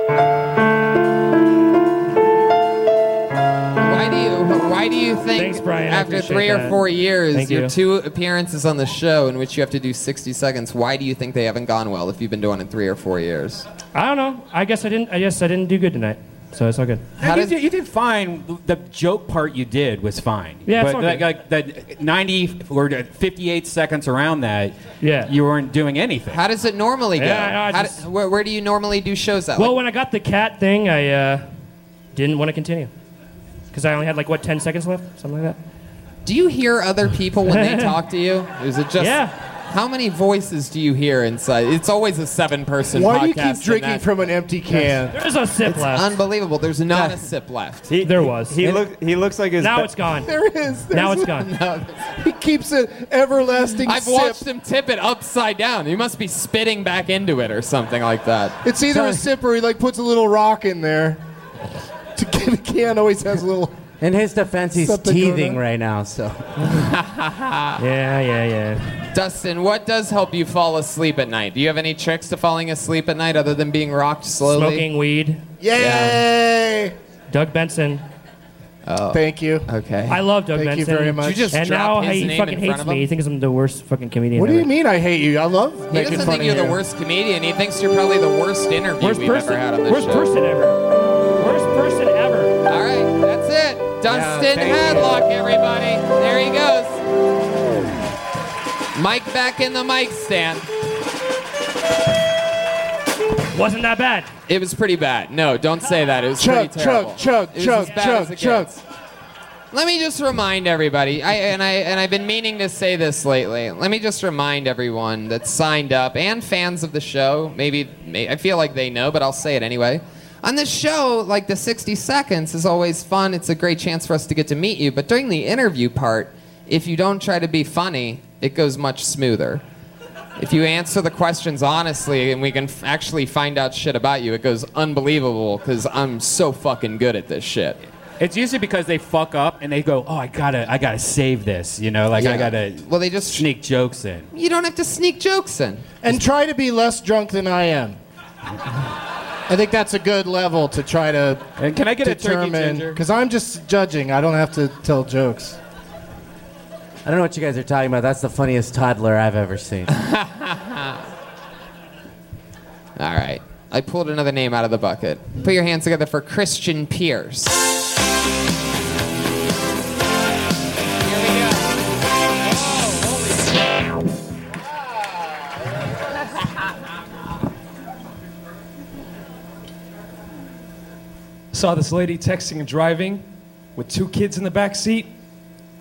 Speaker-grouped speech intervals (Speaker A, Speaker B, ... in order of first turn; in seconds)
Speaker A: 3.8-13.7, 17.2-17.5, 26.3-29.8, 36.2-44.1, 45.6-47.8, 51.4-52.0, 53.8-58.6, 66.6-67.8, 69.1-74.8, 75.8-76.2, 78.9-80.2, 81.2-83.0, 85.9-90.3, 92.7-97.0, 98.9-100.7, 104.5-108.8, 109.7-129.6, 130.4-137.8, 142.2-143.5, 144.3-145.9, 159.9-161.0, 163.0-167.6, 171.0-171.6, 172.6-173.2
Speaker B: 5.4-6.8, 7.3-7.7, 13.9-17.1, 20.6-21.3, 25.0-25.3, 27.2-28.0, 29.6-31.4, 32.1-32.9, 33.7-35.6, 37.5-37.9, 39.0-39.3, 45.1-46.0, 48.0-48.7, 49.6-50.3, 50.9-51.5, 67.8-68.8, 74.5-75.4, 77.3-78.0, 80.1-84.7, 89.0-90.8, 91.4-92.5, 103.5-104.3
Speaker C: 17.2-26.4, 138.2-144.3, 151.6-153.0
Speaker D: 42.9-45.1, 50.2-51.5, 52.1-54.4, 58.6-61.2, 62.1-63.8, 64.8-65.6, 75.6-76.9, 79.1-79.7, 80.5-81.5, 84.4-86.8, 106.4-108.7, 146.0-148.0, 149.5-151.4, 152.0-155.6
Speaker E: 47.9-49.9
Speaker F: 58.9-59.2, 64.0-66.4, 157.1-159.9
Speaker G: 181.5-185.1